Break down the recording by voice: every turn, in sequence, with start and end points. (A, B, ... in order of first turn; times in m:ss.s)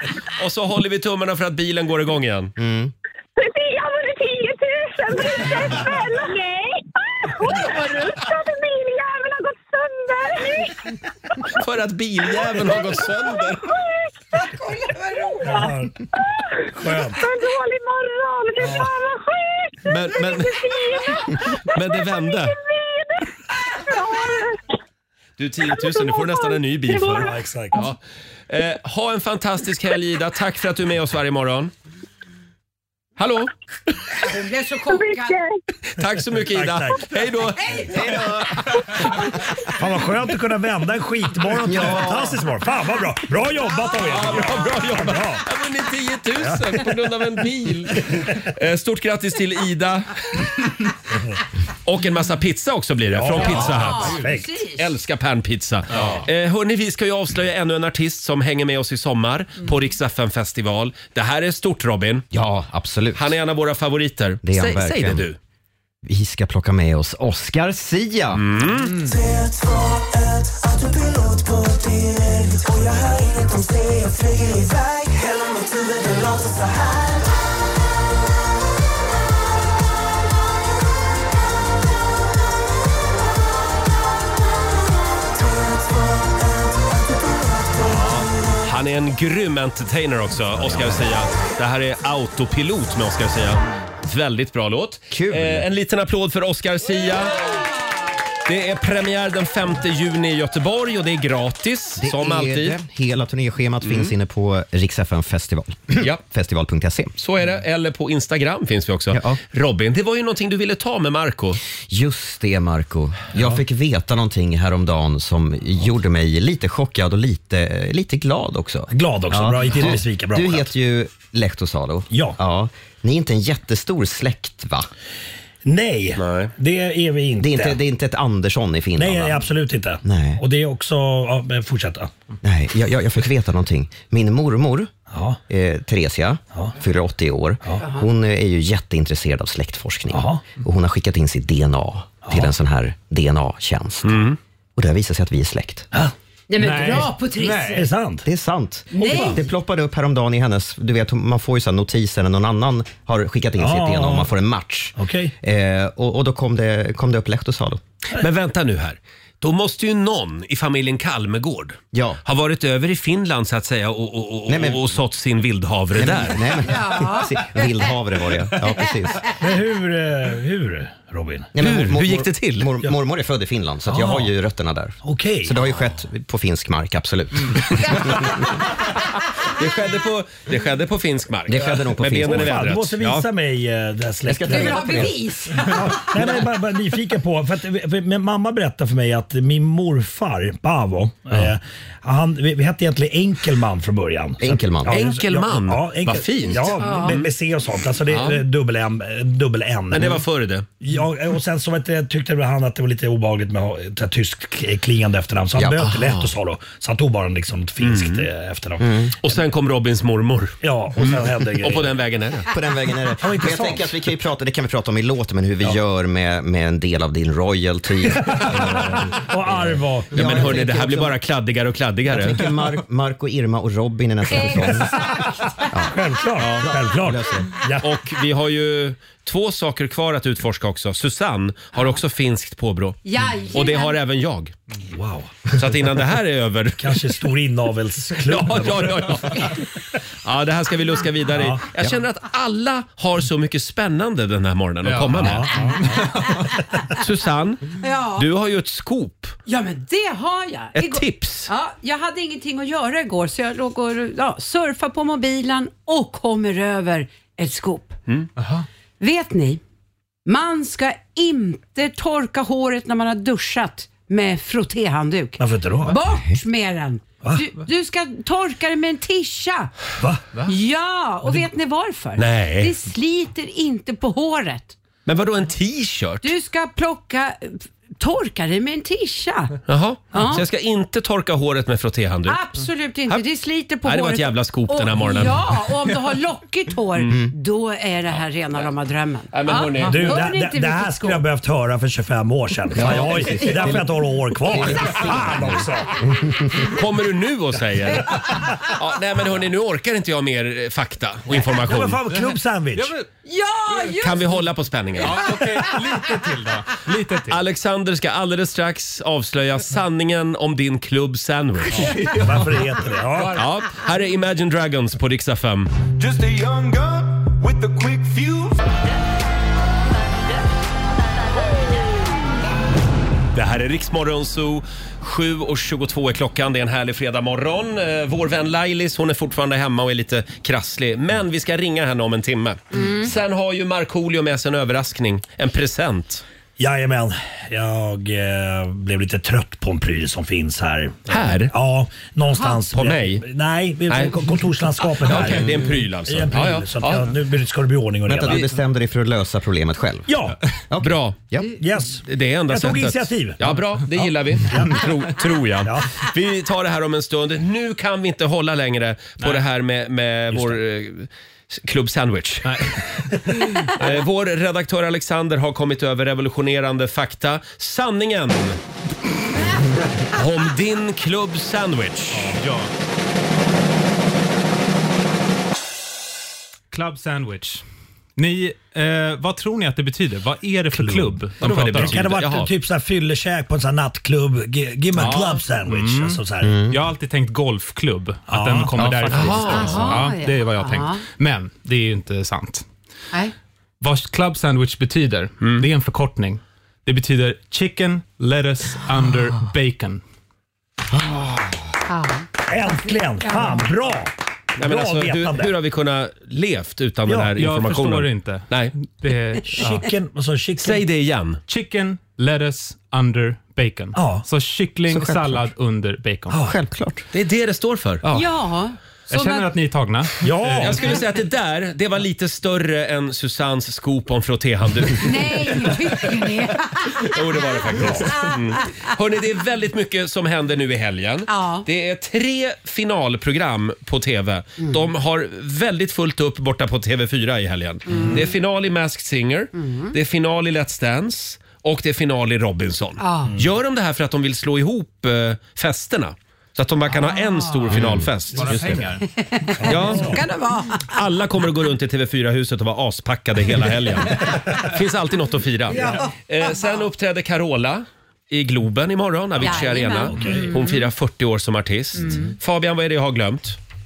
0:00.4-0:02.5 A
0:02.6-0:02.9 B
0:03.4-0:10.8 C
0:11.5-0:13.7 A
0:13.6-0:14.0 C
0:15.4-0:15.6 C
0:15.4-0:16.0 D
0:16.3-0:24.6 C
0:16.8-0:17.2 D
0:18.6-0:18.9 D
0:19.9-0:20.7 A
0:21.7-0:22.6 A
0:25.4-0:28.0 A
0:25.7-0:27.3 C
0:27.1-0:27.8 D
0:28.5-0:31.7 A
0:33.2-0:33.5 A
0:34.2-0:35.4 E
0:34.9-0:35.5 C
0:36.0-0:38.3 A
0:36.4-0:37.0 D
0:37.6-0:37.9 E
0:37.9-0:38.5 B
0:39.7-0:45.4 D
0:41.6-0:42.4 B
0:44.0-0:50.4 A
0:46.4-0:46.8 D
0:51.8-0:54.2 A
0:53.1-0:54.5 D
0:53.4-0:54.9 E
0:54.7-1:02.2 A
1:02.3-1:03.4 B
1:03.1-1:05.4 A
1:04.4-1:05.2 B
1:06.0-1:08.4 B
1:08.4-1:09.1 A
1:27.8-1:37.6 A
1:30.6-1:31.0 B
1:35.1-1:35.7 B
1:38.4-1:42.8 A
1:42.0-1:47.1 B
1:43.8-1:44.1 A
1:47.2-1:51.6 A
1:49.1-1:49.4 B
1:51.9-2:04.9 B
1:53.4-1:53.6 D
1:58.9-2:00.7 D
2:02.1-2:02.4 D
2:05.6-2:07.8 D
2:06.2-2:06.5 A
2:07.4-2:09.4 B
2:09.0-2:12.1 D
2:10.0-2:10.4 B
2:12.4-2:14.9 B
2:15.1-2:15.4 D
2:15.5-2:25.9 B
2:17.8-2:18.1 E
2:20.1-2:20.4 D
2:24.0-2:24.4 A
2:26.5-2:27.9 E
2:26.6-2:27.9 F
2:27.7-2:28.2 D
2:28.2-2:37.8 B
2:28.9-2:29.4 E
2:29.0-2:29.4 D
2:33.6-2:34.3 D
2:35.0-2:35.3 D
2:38.1-2:46.5 A
2:41.9-2:42.2 B
2:44.5-2:44.9 B
2:45.9-2:49.2 B
2:46.6-2:47.7 E
2:49.4-2:51.5 D
2:51.5-2:58.4 B
2:51.6-2:52.7 A
2:53.9-2:54.3 D
2:55.0-2:55.6 D
2:59.5-3:03.2 A
3:01.5-3:02.6 B
3:02.2-3:20.2 D
3:04.2-3:05.2 B
3:04.5-3:05.8 E
3:14.4-3:15.0 B
3:14.9-3:17.3 A
3:16.8-3:17.2 E
3:18.1-3:18.4 A
3:19.9-3:20.7 A
3:20.8-3:28.9 D
3:25.5-3:25.8 B
3:25.8-3:26.3 A
3:27.8-3:28.3 A
3:28.8-3:29.1 B
3:29.2-3:32.5 A
3:30.6-3:31.9 D
3:32.5-3:41.2 B
3:33.2-3:33.9 D
3:38.2-3:40.6 D
3:40.1-3:42.4 A
3:42.1-3:47.5 B
3:44.3-3:45.6 E
3:44.9-3:45.3 D
3:45.8-3:47.9 D
3:46.4-3:46.7 A
3:47.8-3:53.0 A
3:53.0-3:54.0 E
3:53.5-3:54.5 A
3:54.9-3:55.7 D
3:55.5-3:57.2 A
3:56.8-3:59.5 D
3:58.2-3:59.6 A
4:00.2-4:05.6 A
4:01.3-4:01.6 D
4:04.8-4:06.4 F
4:05.2-4:05.7 D
4:07.0-4:09.4 A
4:07.8-4:08.2 E
4:09.5-4:18.0 E
4:10.7-4:11.5 A
4:18.4-4:18.6 F
4:19.0-4:19.6 E
4:20.2-4:29.7 E
4:25.4-4:25.9 D
4:26.0-4:26.4 B
4:30.0-4:30.2 D
4:30.4-4:34.8 E
4:32.2-4:32.7 A
4:35.0-4:36.3 A
4:36.2-4:39.6 E
4:39.7-4:42.4 A
4:40.1-4:40.4 E
4:42.3-4:51.2 E
4:43.8-4:45.4 A
4:49.3-4:50.2 A
4:49.8-4:56.1 D
4:52.7-4:53.9 B
4:54.5-4:55.5 B
4:56.6-5:02.0 A
5:01.3-5:02.9 D
5:02.1-5:03.1 F
5:03.2-5:04.3 E
5:04.0-5:05.3 A
5:05.0-5:07.4 F
5:07.3-5:11.9 A
5:11.8-5:12.3 F
5:12.1-5:13.4 D
5:13.4-5:15.7 A
5:16.0-5:18.6 G
5:23.3-5:36.2 A
5:32.7-5:33.1 E
5:36.6-5:48.4 D
5:41.1-5:41.5 A
5:42.3-5:42.6 E
5:42.7-5:43.2 A
5:43.9-5:44.1 A
5:44.9-5:47.1 A
5:48.0-5:51.5 B
5:50.1-5:50.4 D
5:50.8-5:51.2 A
5:51.5-5:53.4 D
5:52.1-6:02.8 A
5:54.0-5:54.9 D
5:55.6-5:55.9 D
6:02.4-6:02.8 F
6:03.6-6:08.6 A
6:10.1-6:12.4 A
6:12.1-6:12.7 F
6:16.7-6:17.6 F
6:18.2-6:22.1 F
6:20.7-6:26.6 D
6:21.4-6:22.5 A
6:24.9-6:32.6 F
6:26.4-6:26.8 B
6:28.3-6:29.0 D
6:29.1-6:30.0 A
6:29.4-6:31.0 E
6:33.8-6:40.0 F
6:35.4-6:35.7 A
6:41.9-6:43.7 E
6:42.5-6:45.5 D
6:44.6-6:48.7 A
6:47.1-6:47.3 D
6:47.4-6:49.9 F
6:49.5-6:50.8 D
6:50.6-6:51.4 A
6:51.5-6:56.4 F
6:53.9-6:54.2 D
6:54.9-6:55.4 B
6:56.3-6:57.0 B
6:57.1-6:58.0 A
6:58.1-6:59.5 E
6:59.1-7:00.9 F
7:00.2-7:01.0 D
7:00.6-7:05.7 A
7:05.0-7:07.1 E
7:07.0-7:28.8 A
7:07.8-7:08.1 D
7:07.8-7:08.9 E
7:11.3-7:11.6 E
7:14.6-7:14.8 E
7:17.9-7:18.3 E
7:19.5-7:19.9 E
7:23.0-7:23.4 E
7:26.9-7:27.7 E
7:27.8-7:28.1 B
7:28.3-7:29.0 F
7:29.2-7:31.0 E
7:29.6-7:30.2 D
7:29.7-7:30.1 A
7:30.9-7:43.6 A
7:35.7-7:36.8 E
7:39.4-7:40.9 E
7:39.4-7:40.6 D
7:42.0-7:42.3 E